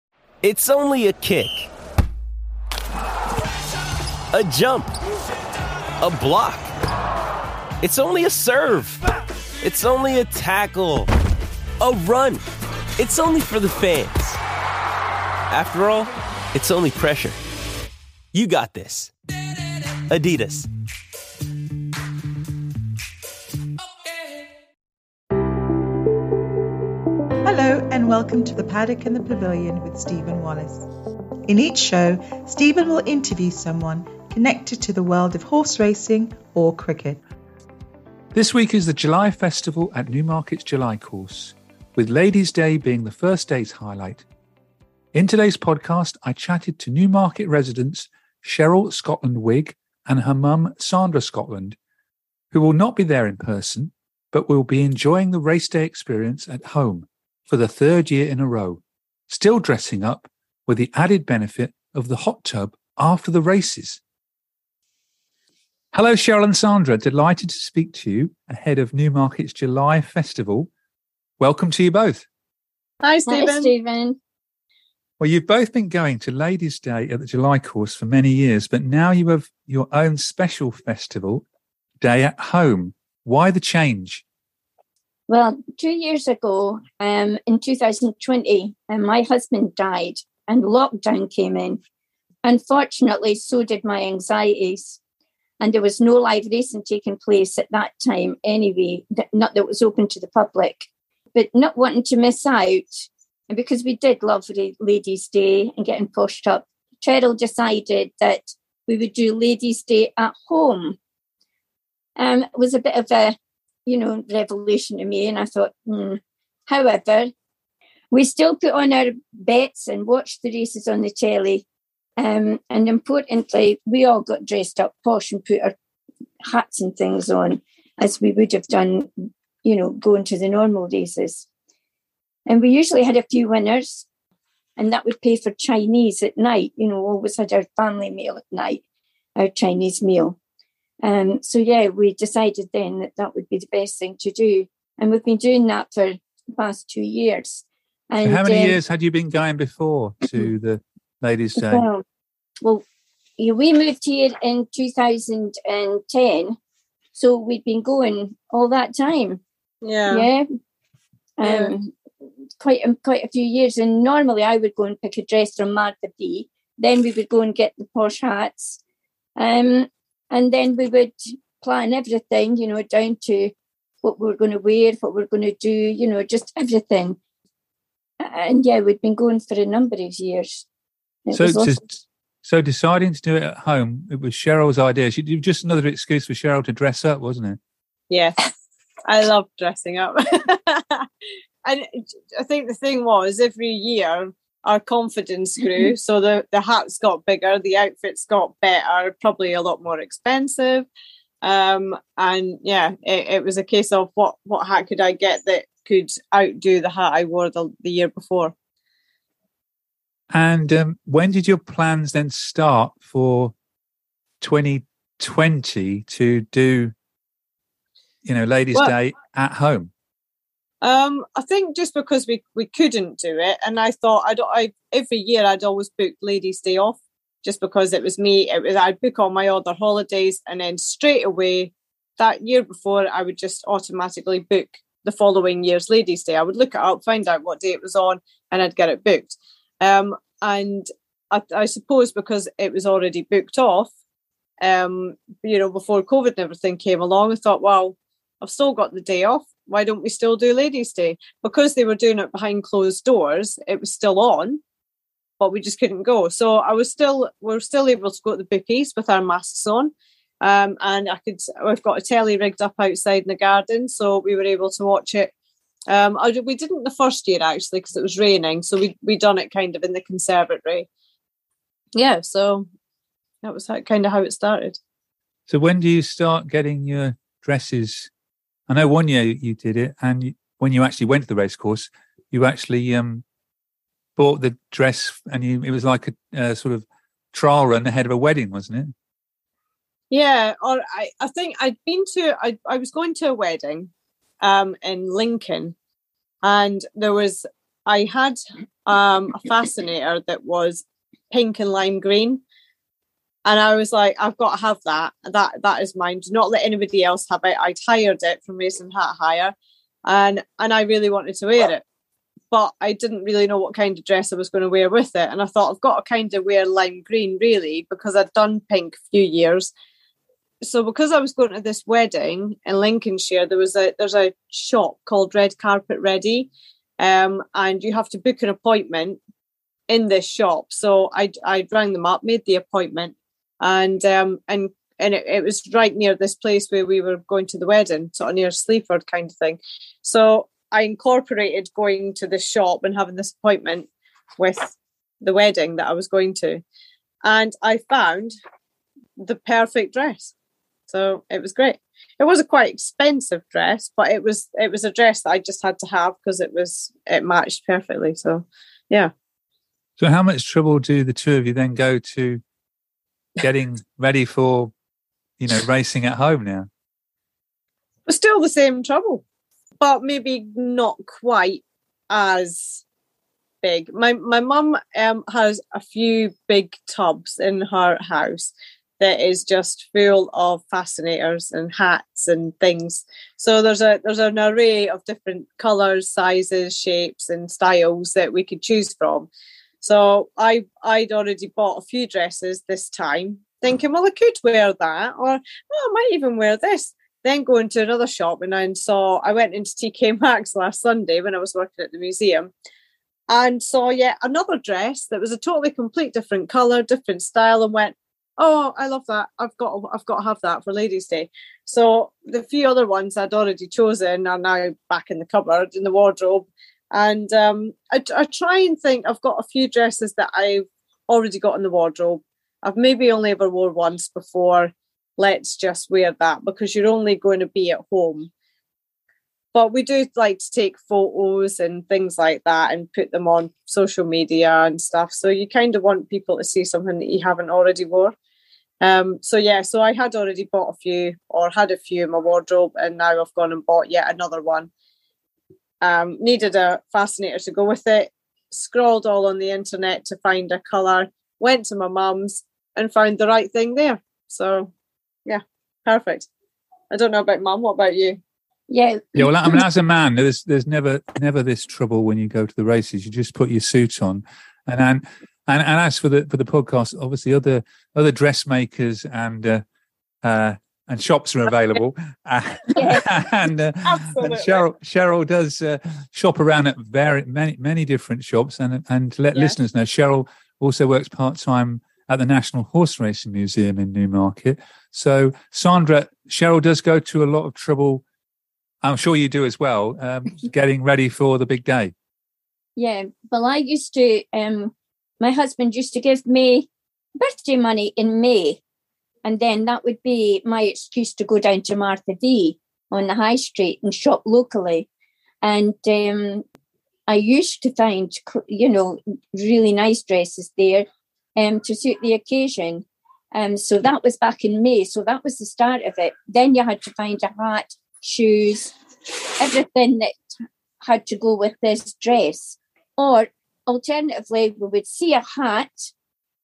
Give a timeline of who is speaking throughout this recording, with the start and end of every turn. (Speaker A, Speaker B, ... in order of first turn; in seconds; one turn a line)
Speaker A: 0.4-1.7
Speaker A: 4.3-4.9
Speaker A: 6.0-6.7
Speaker A: 7.8-9.0
Speaker A: 9.6-11.1
Speaker A: 11.8-12.4
Speaker A: 13.0-14.4
Speaker A: 15.5-17.4
Speaker A: 18.3-19.1
Speaker A: 20.1-20.7
Speaker B: 27.4-30.9
Speaker B: 31.4-37.2
Speaker C: 38.3-44.2
Speaker C: 45.1-51.8
Speaker C: 52.5-64.0
Speaker C: 65.9-70.7
Speaker C: 71.4-72.2
Speaker D: 73.0-73.7
Speaker E: 73.3-74.2
Speaker C: 75.2-81.4
Speaker C: 82.0-84.2
Speaker E: 85.3-91.8
Speaker E: 92.4-95.0
Speaker E: 95.6-111.0
Speaker E: 112.2-117.3
Speaker E: 118.1-121.6
Speaker E: 122.2-125.7
Speaker E: 126.4-131.4
Speaker E: 132.5-134.0
Speaker E: 134.8-138.8
Speaker E: 139.3-140.4
Speaker E: 141.0-148.8
Speaker C: 148.2-151.8
Speaker E: 151.6-152.0
Speaker E: 153.4-156.6
Speaker E: 157.1-159.4
Speaker D: 159.8-160.3
Speaker E: 160.1-160.4
Speaker E: 161.4-161.9
Speaker D: 161.4-161.7
Speaker E: 162.6-168.8
Speaker E: 169.3-177.2
Speaker E: 178.2-180.6
Speaker E: 181.2-181.8
Speaker C: 181.3-187.6
Speaker D: 188.1-188.5
Speaker D: 189.1-191.1
Speaker D: 191.6-200.9
Speaker D: 201.4-208.5
Speaker C: 210.3-213.5
Speaker C: 214.4-216.9
Speaker C: 218.2-219.9
Speaker D: 220.8-243.9
Speaker D: 244.6-254.6
Speaker D: 255.4-265.3
Speaker D: 265.9-270.9
Speaker D: 271.9-272.7
Speaker D: 273.4-274.8
Speaker C: 275.5-278.1
Speaker C: 278.7-283.2
Speaker C: 284.2-288.9
Speaker D: 290.1-295.7
Speaker D: 296.4-302.4
Speaker D: 303.4-309.5
Speaker D: 310.1-311.8
Speaker D: 312.5-319.7
Speaker D: 320.6-329.2
Speaker D: 329.9-346.6
Speaker D: 347.2-348.3
Speaker D: 349.2-350.3
Speaker D: 350.9-359.1
Speaker C: 360.0-362.4
Speaker C: 363.4-364.7
Speaker C: 365.4-366.7
Speaker D: 368.1-369.2
Speaker D: 369.8-372.8
Speaker D: 373.6-389.3
Speaker D: 389.8-402.5
Speaker D: 403.3-428.3
Speaker D: 429.5-438.1
Speaker D: 438.8-444.7
Speaker D: 445.8-454.7
Speaker D: 455.2-456.3
Speaker D: 456.9-458.2
Speaker E: 458.7-459.6
Speaker C: 459.1-469.6
Speaker C: 470.2-488.0
Speaker E: 472.7-473.1
Speaker D: 473.9-474.6
Speaker C: 488.8-491.9
Speaker E: 492.8-498.6
Speaker E: 499.2-504.9
Speaker E: 505.4-506.4
Speaker E: 507.1-518.7
Speaker E: 519.4-520.2
Speaker E: 520.8-525.9